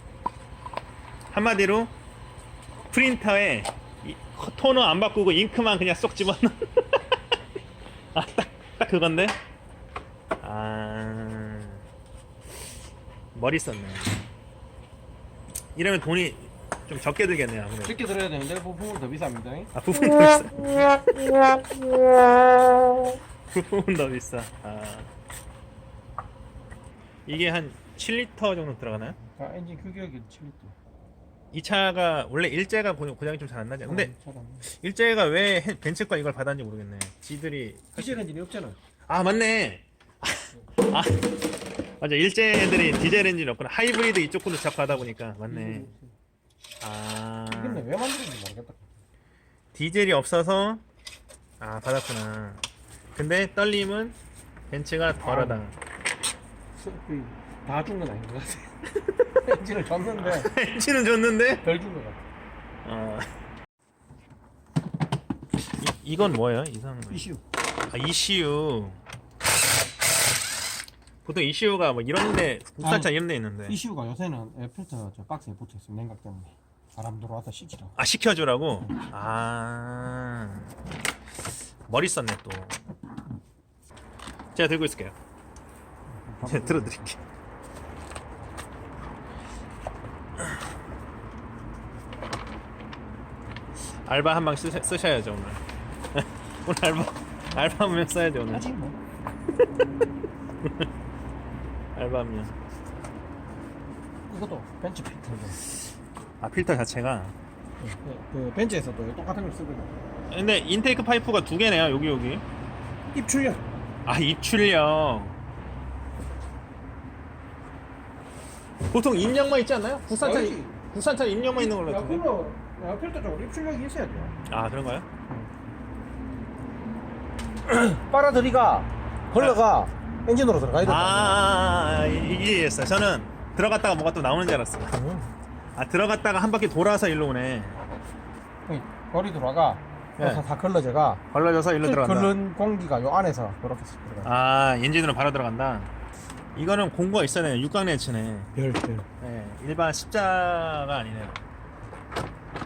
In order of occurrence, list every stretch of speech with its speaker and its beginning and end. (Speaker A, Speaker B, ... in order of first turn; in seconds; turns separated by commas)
Speaker A: 1.3-1.9, Speaker A: 2.9-6.8, Speaker A: 8.1-9.3, Speaker A: 10.4-11.8, Speaker A: 13.3-14.2, Speaker A: 15.7-18.0, Speaker B: 17.8-19.7, Speaker A: 19.7-21.3, Speaker A: 23.5-25.1, Speaker A: 27.2-29.1, Speaker B: 29.4-30.7, Speaker A: 31.5-34.1, Speaker B: 33.8-34.6, Speaker A: 34.6-38.2, Speaker B: 37.9-38.8, Speaker A: 39.1-41.3, Speaker A: 42.0-45.9, Speaker B: 45.5-46.1, Speaker A: 46.8-47.8, Speaker B: 47.5-48.9, Speaker A: 49.7-50.8, Speaker A: 51.6-52.6, Speaker A: 53.1-54.1, Speaker A: 54.7-55.7, Speaker B: 55.2-55.6, Speaker B: 56.8-58.7, Speaker B: 59.4-60.5, Speaker A: 60.2-61.6, Speaker B: 61.6-62.2, Speaker A: 62.8-63.2, Speaker A: 65.8-67.2, Speaker B: 67.1-67.4, Speaker A: 67.9-69.0, Speaker A: 71.2-73.8, Speaker B: 72.8-73.1, Speaker B: 73.7-78.0, Speaker A: 78.0-80.7, Speaker A: 81.9-82.8, Speaker A: 84.5-85.1, Speaker B: 86.2-87.1, Speaker A: 86.4-87.2, Speaker A: 94.0-95.6, Speaker A: 96.1-98.7, Speaker B: 98.5-99.0, Speaker A: 102.0-102.5, Speaker B: 104.3-105.6, Speaker A: 106.4-107.3, Speaker B: 107.8-110.0, Speaker A: 110.3-112.4, Speaker B: 113.1-113.7, Speaker A: 114.0-115.3, Speaker A: 118.9-122.2, Speaker B: 120.2-120.8, Speaker B: 121.5-124.3, Speaker A: 124.5-125.1, Speaker B: 127.7-131.5, Speaker A: 129.3-129.6, Speaker A: 130.8-134.9, Speaker B: 134.9-135.3, Speaker A: 135.8-137.8, Speaker B: 138.7-141.2, Speaker A: 140.2-140.4, Speaker A: 141.3-142.3, Speaker B: 141.8-144.3, Speaker A: 144.2-145.9, Speaker A: 146.5-148.5, Speaker B: 148.6-149.1, Speaker A: 149.2-151.4